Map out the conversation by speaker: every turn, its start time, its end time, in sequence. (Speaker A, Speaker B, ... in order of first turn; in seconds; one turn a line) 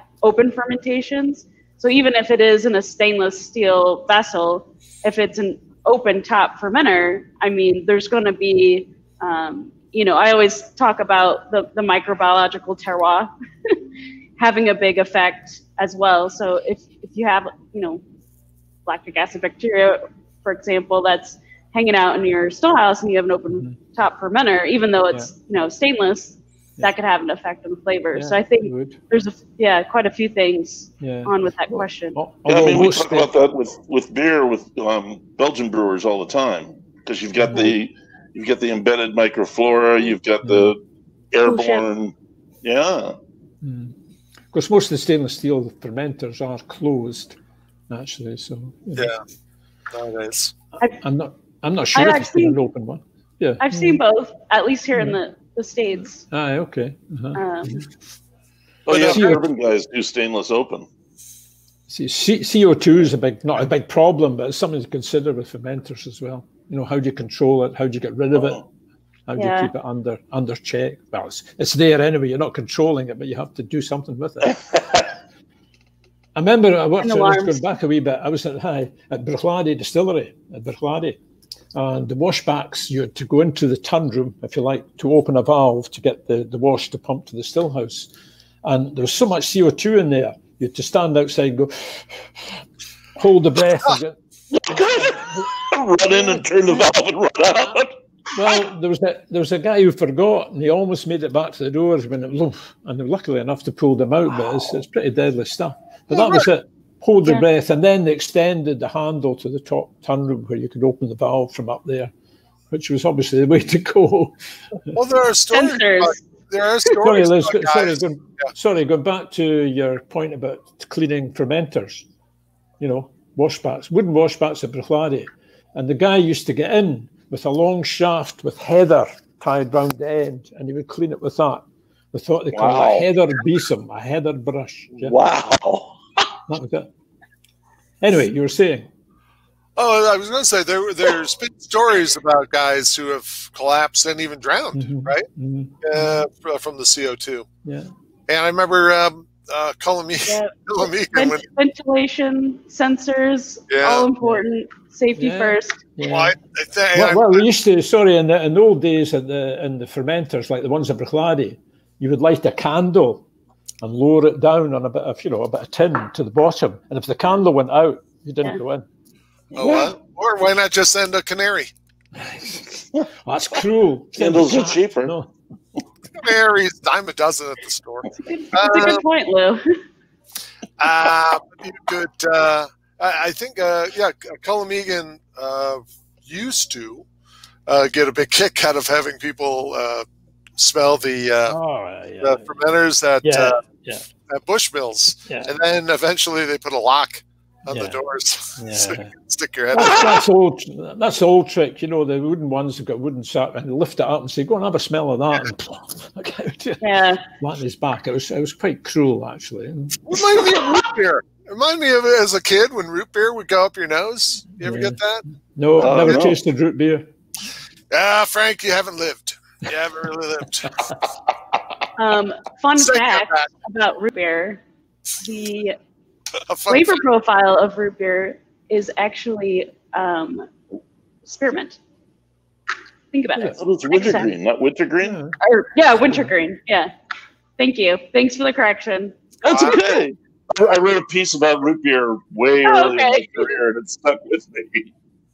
Speaker A: 0.2-13.8
Speaker A: 14.4-18.0
Speaker A: 18.9-32.2
Speaker B: 23.5-23.8
Speaker B: 28.1-29.0
Speaker B: 31.0-33.3
Speaker C: 32.5-40.8
Speaker B: 37.4-37.7
Speaker B: 40.4-40.7
Speaker C: 41.3-43.2
Speaker A: 41.4-41.9
Speaker B: 43.6-43.9
Speaker B: 44.5-47.4
Speaker B: 47.9-49.1
Speaker D: 49.9-50.5
Speaker B: 50.9-54.0
Speaker A: 51.9-52.6
Speaker A: 53.6-56.2
Speaker B: 56.3-57.9
Speaker A: 57.3-57.8
Speaker C: 58.9-60.9
Speaker D: 58.9-59.3
Speaker B: 58.9-59.4
Speaker B: 61.9-68.6
Speaker B: 69.3-74.6
Speaker A: 69.3-69.7
Speaker C: 74.4-75.1
Speaker B: 76.3-81.2
Speaker A: 77.0-77.7
Speaker B: 81.7-88.1
Speaker B: 88.6-92.6
Speaker B: 93.2-94.2
Speaker C: 94.5-97.9
Speaker B: 94.7-95.5
Speaker B: 98.3-112.1
Speaker B: 112.7-114.3
Speaker D: 114.9-118.5
Speaker A: 115.5-116.2
Speaker B: 117.0-122.0
Speaker B: 122.8-135.1
Speaker C: 132.5-133.1
Speaker C: 135.0-136.2
Speaker B: 136.5-136.9
Speaker B: 138.0-138.9
Speaker D: 139.8-145.3
Speaker B: 144.7-146.2
Speaker D: 145.8-147.5
Speaker B: 147.6-147.9
Speaker D: 148.3-151.4
Speaker A: 150.3-155.8
Speaker D: 153.7-154.1
Speaker B: 155.2-156.3
Speaker D: 156.1-157.4
Speaker B: 156.9-163.2
Speaker B: 163.8-168.8
Speaker C: 169.5-169.9
Speaker D: 169.5-171.7
Speaker B: 172.1-175.3
Speaker C: 174.1-175.1
Speaker D: 176.2-179.0
Speaker A: 178.2-179.6
Speaker D: 180.8-187.0
Speaker D: 187.7-190.1
Speaker D: 190.6-191.6
Speaker B: 191.5-192.5
Speaker D: 192.2-193.6
Speaker B: 193.2-194.1
Speaker D: 194.3-200.2
Speaker B: 195.2-195.5
Speaker B: 197.7-198.0
Speaker B: 198.6-199.1
Speaker B: 199.7-206.8
Speaker A: 206.8-207.2
Speaker B: 207.4-210.3
Speaker D: 210.1-215.2
Speaker B: 214.6-215.0
Speaker B: 215.5-217.1
Speaker C: 215.8-216.4
Speaker D: 215.8-216.2
Speaker D: 217.9-220.8
Speaker A: 222.0-224.6
Speaker D: 222.8-223.5
Speaker A: 225.2-225.8
Speaker D: 226.5-227.0
Speaker A: 226.7-230.5
Speaker A: 231.2-231.8
Speaker A: 233.1-234.3
Speaker B: 233.4-234.3
Speaker C: 233.6-235.2
Speaker B: 235.0-235.3
Speaker A: 235.4-236.9
Speaker A: 237.6-240.0
Speaker C: 239.4-244.9
Speaker D: 239.5-239.8
Speaker A: 242.6-243.5